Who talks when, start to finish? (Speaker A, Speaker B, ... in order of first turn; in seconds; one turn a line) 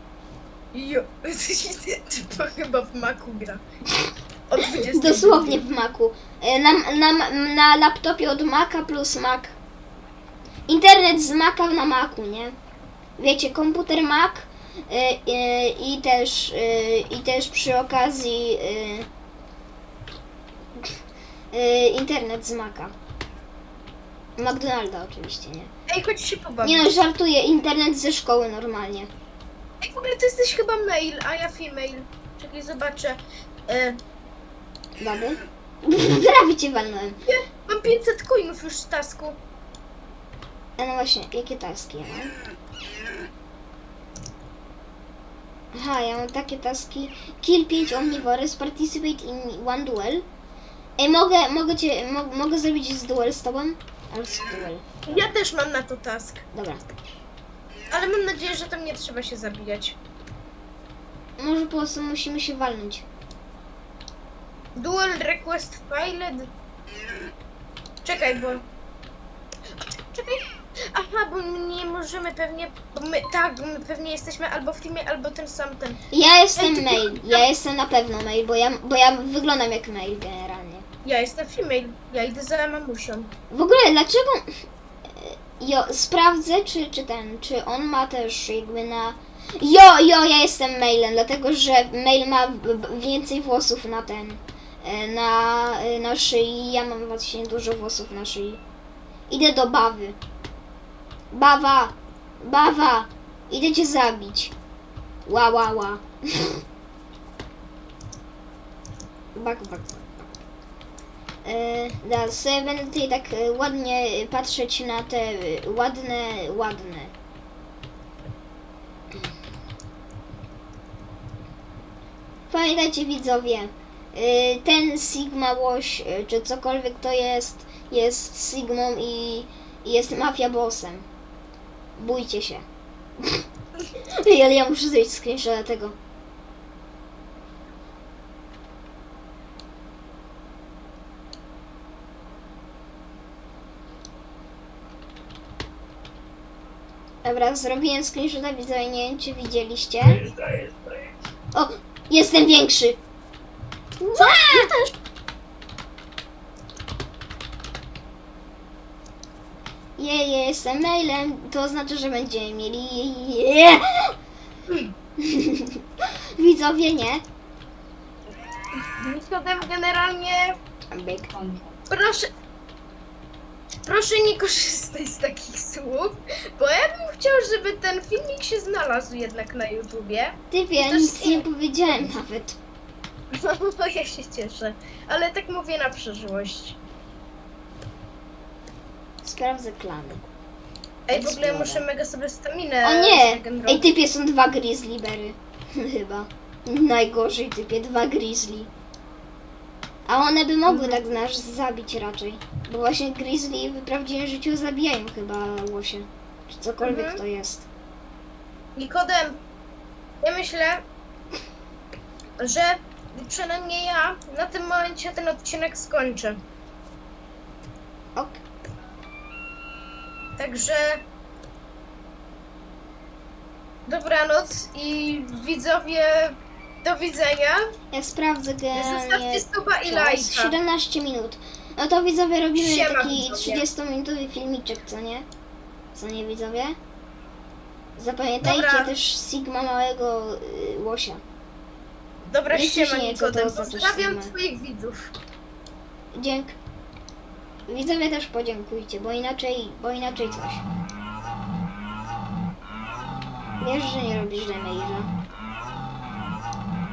Speaker A: 0.7-3.6
Speaker A: 4.5-5.6
Speaker B: 4.7-9.5
Speaker B: 10.7-12.5
Speaker B: 13.2-19.1
Speaker B: 21.5-22.9
Speaker B: 24.4-25.7
Speaker A: 25.9-26.9
Speaker B: 26.6-29.1
Speaker A: 29.8-34.0
Speaker B: 35.0-37.1
Speaker A: 37.2-39.4
Speaker B: 40.8-42.3
Speaker B: 45.7-50.2
Speaker B: 51.0-55.3
Speaker A: 55.0-56.5
Speaker B: 56.5-56.8
Speaker A: 57.9-60.0
Speaker B: 61.4-63.0
Speaker A: 64.7-66.5
Speaker A: 68.0-68.6
Speaker A: 69.9-76.0
Speaker B: 76.1-80.8
Speaker A: 76.5-77.5
Speaker A: 81.0-83.3
Speaker B: 83.5-98.6
Speaker B: 99.3-100.2
Speaker B: 101.3-104.5
Speaker B: 105.2-106.6
Speaker B: 109.3-110.3
Speaker B: 111.4-117.1
Speaker B: 122.5-131.1
Speaker B: 132.0-132.7
Speaker B: 133.2-133.4
Speaker B: 134.0-135.9
Speaker B: 147.2-150.3
Speaker A: 150.3-150.7
Speaker B: 151.5-153.0
Speaker B: 154.0-154.7
Speaker A: 154.1-154.9
Speaker B: 160.0-164.1
Speaker B: 165.2-165.8
Speaker B: 166.4-167.2
Speaker A: 168.7-170.6
Speaker B: 170.9-171.3
Speaker A: 171.9-172.3
Speaker A: 173.8-181.5
Speaker B: 180.5-182.6
Speaker A: 183.3-186.8
Speaker B: 189.2-190.2
Speaker A: 191.1-193.9
Speaker B: 191.1-191.8
Speaker B: 192.8-198.7
Speaker B: 200.1-207.7
Speaker A: 200.7-201.0
Speaker A: 206.8-207.2
Speaker A: 208.8-209.4
Speaker A: 210.2-210.8
Speaker A: 212.4-216.4
Speaker A: 220.4-221.0
Speaker A: 223.8-227.7
Speaker B: 227.9-235.2
Speaker A: 228.7-230.6
Speaker A: 232.5-233.7
Speaker B: 235.9-236.8
Speaker B: 238.0-241.2
Speaker A: 238.4-238.9
Speaker A: 242.3-245.1
Speaker B: 242.5-244.3
Speaker B: 246.1-246.6
Speaker B: 247.7-250.6
Speaker B: 253.6-255.1